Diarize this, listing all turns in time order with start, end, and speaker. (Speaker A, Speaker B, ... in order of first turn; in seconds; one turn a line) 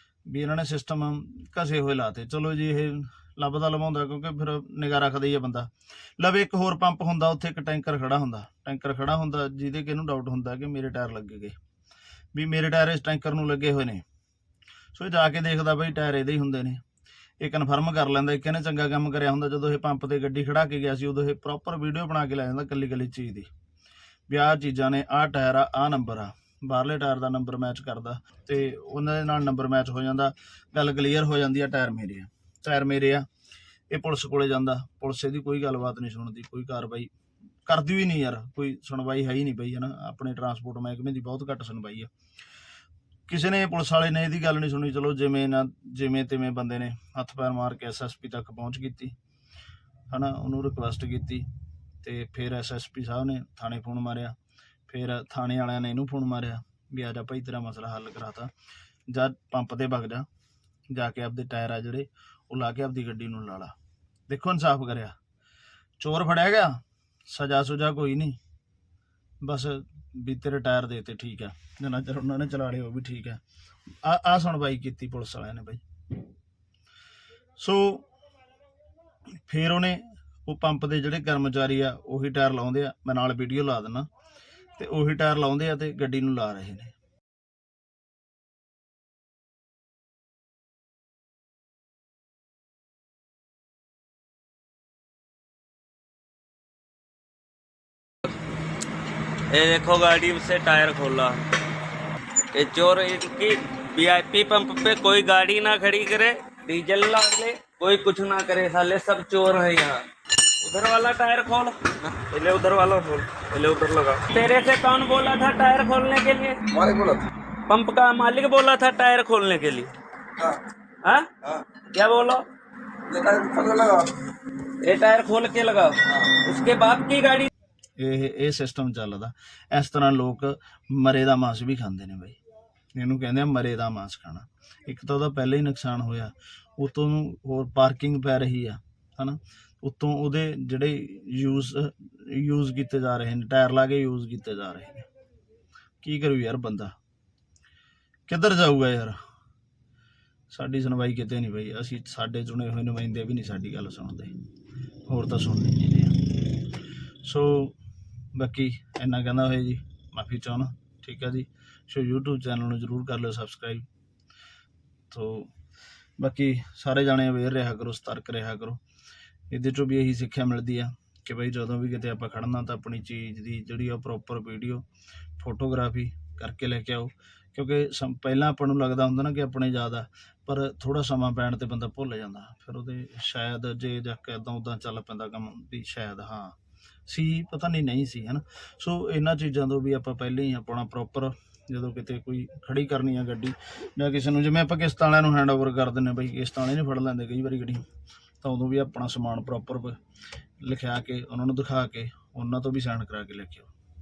Speaker A: 0.2-11.6
Speaker A: 12.3-14.0
Speaker A: 14.9-16.8
Speaker A: 17.4-23.5
Speaker A: 24.3-33.2
Speaker A: 33.9-37.1
Speaker A: 37.7-42.1
Speaker A: 43.3-49.1
Speaker A: 50.1-51.5
Speaker A: 52.0-54.4
Speaker A: 54.9-58.5
Speaker A: 59.1-60.2
Speaker A: 60.9-63.7
Speaker A: 64.3-65.2
Speaker A: 66.0-68.4
Speaker A: 69.4-73.4
Speaker A: 74.0-75.8
Speaker A: 77.6-78.1
Speaker A: 79.5-84.1
Speaker A: 84.8-86.9
Speaker B: 99.5-101.5
Speaker B: 102.5-110.0
Speaker B: 110.6-116.6
Speaker C: 116.7-117.2
Speaker B: 117.7-119.9
Speaker B: 121.9-122.4
Speaker C: 123.1-124.1
Speaker B: 124.8-127.5
Speaker C: 126.1-126.4
Speaker A: 128.0-132.4
Speaker A: 132.9-145.0
Speaker A: 146.0-146.9
Speaker A: 148.3-149.2
Speaker A: 150.5-154.3
Speaker A: 155.1-156.2
Speaker A: 157.2-157.8
Speaker A: 158.3-163.8
Speaker A: 165.1-165.5
Speaker A: 166.2-168.8
Speaker A: 169.5-174.8
Speaker A: 175.4-197.8
Speaker A: 198.4-200.0
Speaker A: 200.6-203.7